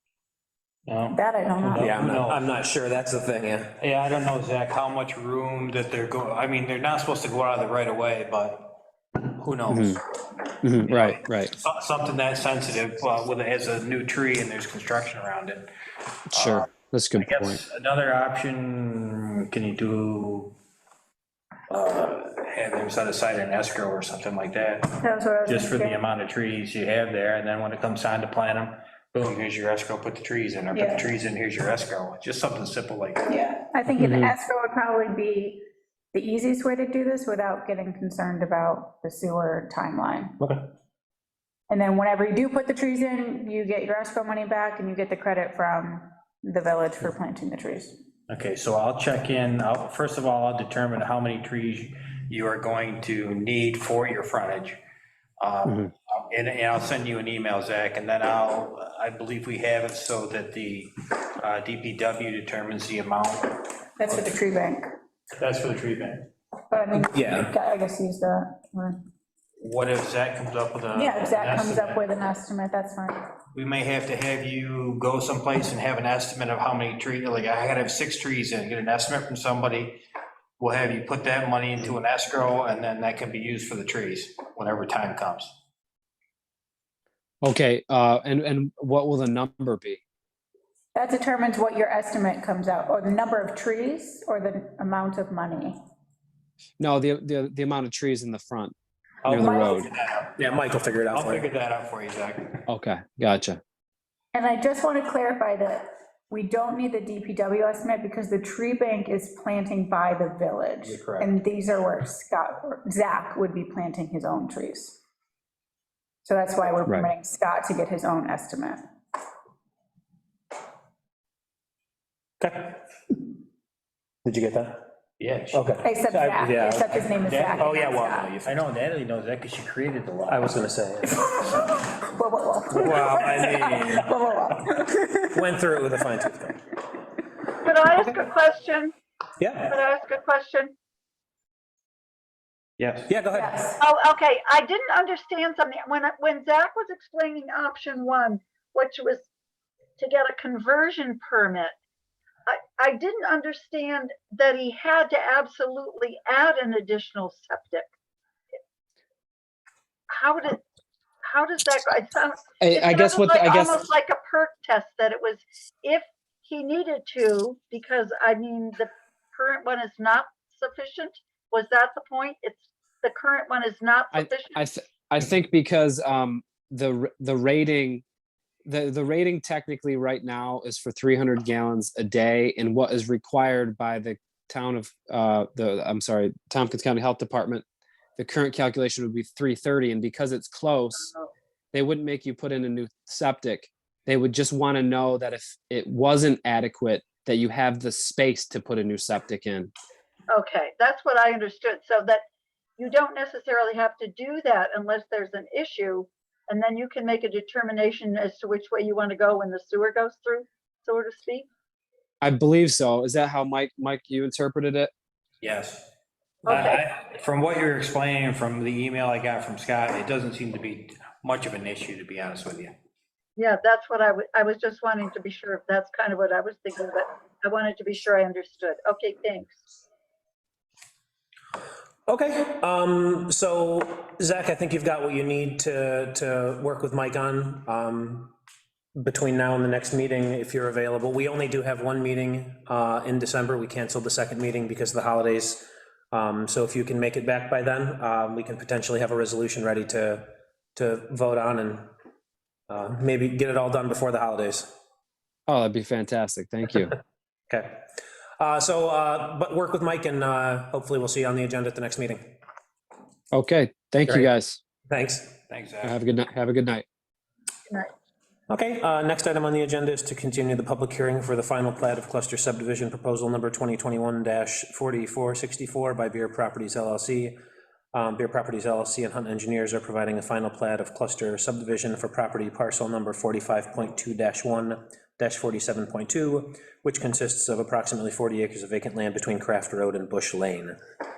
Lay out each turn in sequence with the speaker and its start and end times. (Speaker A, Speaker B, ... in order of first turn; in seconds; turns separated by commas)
Speaker A: 0.9-2.4, Speaker B: 1.1-1.9, Speaker C: 1.8-3.7, Speaker A: 3.8-10.0, Speaker D: 9.7-10.0, Speaker D: 10.6-11.5, Speaker A: 10.8-15.7, Speaker D: 16.3-17.6, Speaker A: 16.3-20.6, Speaker A: 21.7-33.3, Speaker B: 25.0-26.0, Speaker B: 30.7-31.1, Speaker B: 33.2-40.4, Speaker D: 33.9-34.3, Speaker B: 41.7-48.0, Speaker A: 48.3-54.8, Speaker A: 55.4-63.7, Speaker D: 55.6-55.9, Speaker B: 64.0-64.9, Speaker A: 65.4-66.3, Speaker B: 66.7-69.0, Speaker C: 67.1-67.5, Speaker A: 69.6-72.0, Speaker B: 70.9-73.2, Speaker A: 73.5-80.0, Speaker A: 80.6-85.5, Speaker D: 87.4-90.0, Speaker B: 90.9-95.7, Speaker D: 96.8-98.7, Speaker A: 99.2-100.4, Speaker D: 99.3-99.9, Speaker B: 99.3-99.8, Speaker C: 100.4-101.4, Speaker A: 101.1-102.6, Speaker D: 102.7-103.6, Speaker B: 104.3-115.0, Speaker A: 110.8-111.3, Speaker B: 116.2-118.8, Speaker C: 122.4-123.2, Speaker C: 124.2-124.9, Speaker A: 125.2-125.8, Speaker C: 125.5-126.9, Speaker B: 125.8-128.3, Speaker A: 127.2-130.5, Speaker C: 127.6-128.3, Speaker C: 130.3-131.2, Speaker B: 131.2-135.4, Speaker C: 132.7-134.1, Speaker C: 135.3-136.6, Speaker E: 137.6-138.9, Speaker C: 139.4-139.7, Speaker E: 139.7-140.7, Speaker A: 142.8-143.1, Speaker C: 143.1-143.6, Speaker B: 143.3-143.8, Speaker E: 143.8-149.3, Speaker E: 150.0-151.7, Speaker E: 152.4-157.9, Speaker E: 160.1-160.6, Speaker E: 161.2-174.6, Speaker D: 162.6-163.8, Speaker D: 174.1-178.0, Speaker D: 178.7-187.6, Speaker D: 188.2-191.1, Speaker E: 191.0-191.3, Speaker D: 191.7-199.7, Speaker E: 200.3-202.2, Speaker E: 202.8-211.5, Speaker D: 212.2-214.9, Speaker A: 215.4-215.9, Speaker E: 216.4-216.8, Speaker A: 216.5-222.7, Speaker E: 223.4-229.6, Speaker C: 232.1-238.3, Speaker C: 238.9-251.9, Speaker C: 252.7-254.7, Speaker D: 255.5-257.0, Speaker C: 257.5-257.9, Speaker C: 258.4-262.4, Speaker D: 263.3-264.6, Speaker C: 264.9-265.4, Speaker A: 265.5-266.0, Speaker D: 265.8-266.8, Speaker C: 268.5-277.4, Speaker C: 277.9-290.8